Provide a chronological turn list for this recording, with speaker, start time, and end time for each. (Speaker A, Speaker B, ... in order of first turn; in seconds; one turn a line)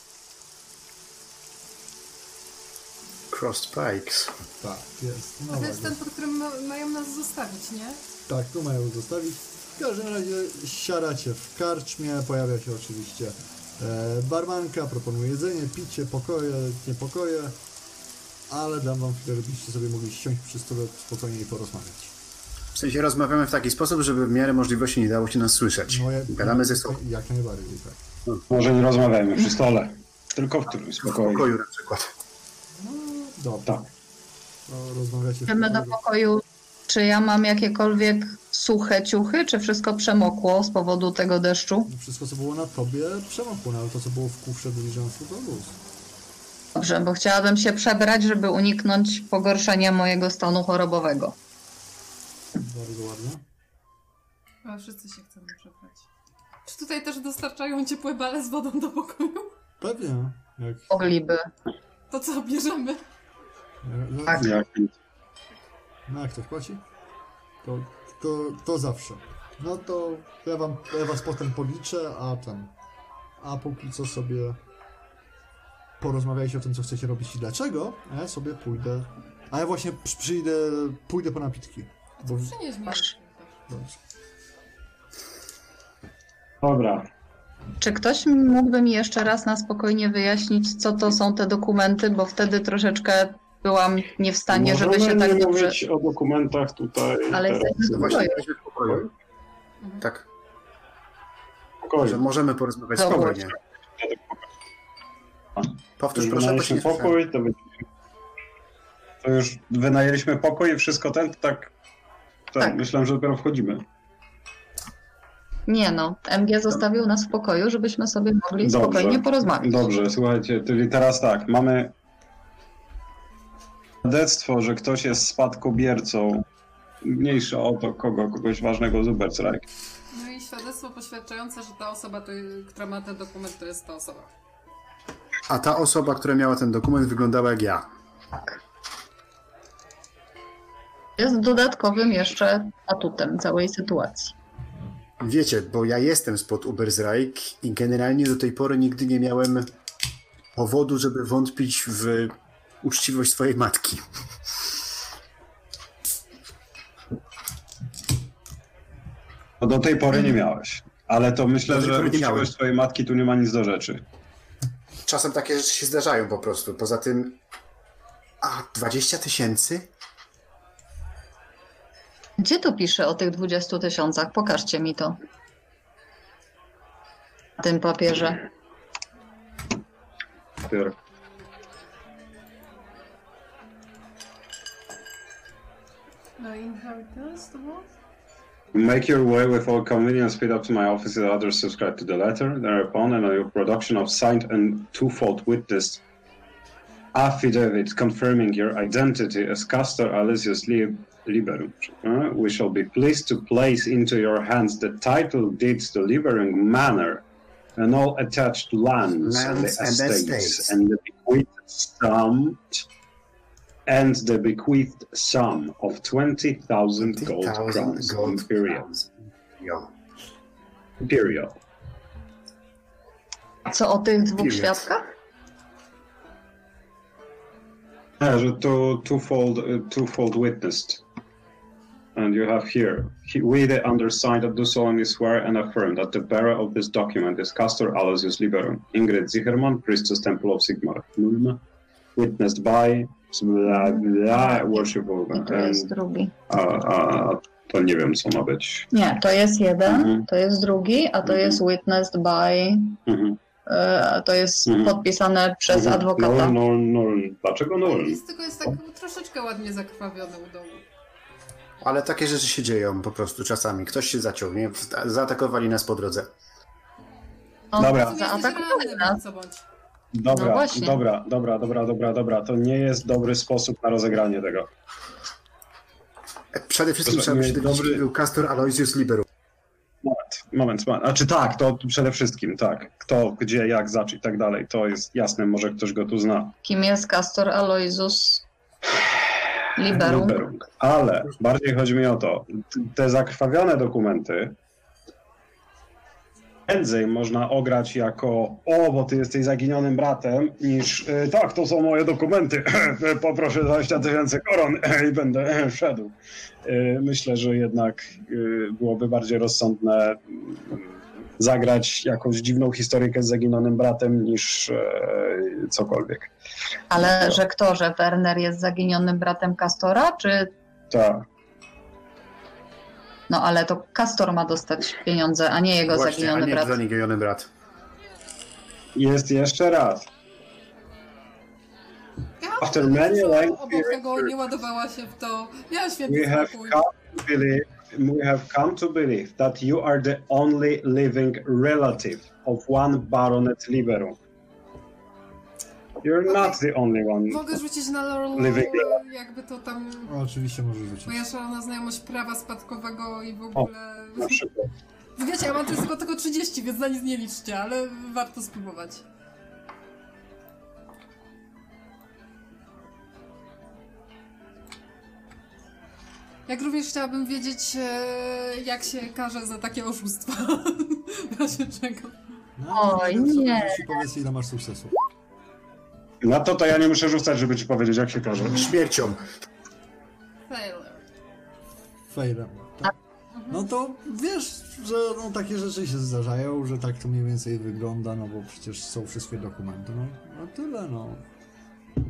Speaker A: 3.3-4.3
Speaker B: 4.6-6.0
Speaker C: 5.5-8.0
Speaker B: 8.3-17.6
Speaker B: 18.5-22.1
Speaker A: 22.7-26.9
Speaker B: 25.9-28.0
Speaker D: 28.5-31.5
Speaker A: 31.0-32.1
Speaker B: 32.8-33.7
Speaker B: 34.7-36.0
Speaker E: 35.5-41.9
Speaker B: 41.9-45.8
Speaker E: 46.7-51.4
Speaker B: 52.6-53.4
Speaker C: 54.6-56.1
Speaker C: 56.7-59.5
Speaker B: 59.8-60.9
Speaker E: 60.9-61.5
Speaker C: 62.1-63.0
Speaker B: 63.8-64.5
Speaker D: 64.3-64.9
Speaker B: 66.1-66.8
Speaker B: 67.6-72.7
Speaker B: 73.4-74.6
Speaker B: 76.0-82.5
Speaker C: 82.2-83.6
Speaker B: 83.7-84.0
Speaker D: 86.6-87.1
Speaker E: 87.8-95.8
Speaker D: 94.5-97.9
Speaker E: 97.3-98.4
Speaker A: 97.8-99.1
Speaker A: 100.0-100.2
Speaker D: 101.8-102.2
Speaker A: 102.0-103.5
Speaker E: 103.0-103.3
Speaker D: 103.1-104.4
Speaker D: 105.6-107.7
Speaker A: 106.0-107.1
Speaker D: 109.2-111.7
Speaker D: 112.5-113.8
Speaker E: 115.7-119.8
Speaker D: 118.6-121.9
Speaker D: 124.0-126.5
Speaker D: 127.0-129.7
Speaker C: 130.1-134.3
Speaker A: 135.5-137.9
Speaker E: 141.2-144.3
Speaker A: 145.2-149.7
Speaker A: 150.6-154.0
Speaker D: 159.6-164.0
Speaker A: 161.7-162.5
Speaker A: 165.1-167.4
Speaker A: 168.4-169.9
Speaker E: 172.4-175.2
Speaker E: 177.6-178.4
Speaker D: 180.6-181.0
Speaker C: 186.4-187.9
Speaker D: 188.7-196.0
Speaker D: 197.1-207.2
Speaker D: 207.8-212.8
Speaker A: 209.2-210.8
Speaker D: 213.9-218.9
Speaker A: 217.0-219.9
Speaker D: 221.0-221.6
Speaker E: 223.7-225.1
Speaker A: 224.4-224.9
Speaker D: 228.2-231.0
Speaker D: 232.2-241.6
Speaker D: 242.2-245.9
Speaker E: 243.7-246.3
Speaker D: 246.5-248.9
Speaker E: 248.9-253.0
Speaker D: 249.9-250.2
Speaker D: 251.3-251.6
Speaker D: 253.1-253.4
Speaker E: 253.7-256.6
Speaker D: 254.7-254.9
Speaker D: 255.7-258.2
Speaker C: 257.8-260.9
Speaker A: 261.8-266.3
Speaker E: 267.7-269.2
Speaker C: 267.8-269.6
Speaker D: 267.8-268.2
Speaker D: 270.1-274.7
Speaker E: 270.3-271.0
Speaker A: 276.5-279.2
Speaker D: 277.1-278.0
Speaker D: 280.0-286.6
Speaker E: 286.6-288.4
Speaker E: 289.8-290.4
Speaker D: 289.8-294.6
Speaker D: 296.7-310.9
Speaker D: 311.4-316.3
Speaker E: 316.9-320.5
Speaker D: 320.9-321.2
Speaker E: 323.3-326.8
Speaker A: 325.9-327.5
Speaker D: 328.9-330.1
Speaker C: 332.4-336.8
Speaker D: 332.6-334.3
Speaker D: 336.1-344.2
Speaker D: 346.0-347.4
Speaker C: 346.3-346.6
Speaker C: 347.3-350.1
Speaker D: 348.4-349.0
Speaker B: 350.1-351.2
Speaker C: 351.1-354.4
Speaker D: 354.2-354.7
Speaker C: 355.2-359.0
Speaker C: 366.5-372.2
Speaker B: 372.6-375.0
Speaker E: 372.7-374.0
Speaker D: 376.2-378.7
Speaker A: 378.5-379.2
Speaker C: 380.5-381.0
Speaker B: 382.1-382.9
Speaker C: 383.3-383.6
Speaker B: 383.5-391.2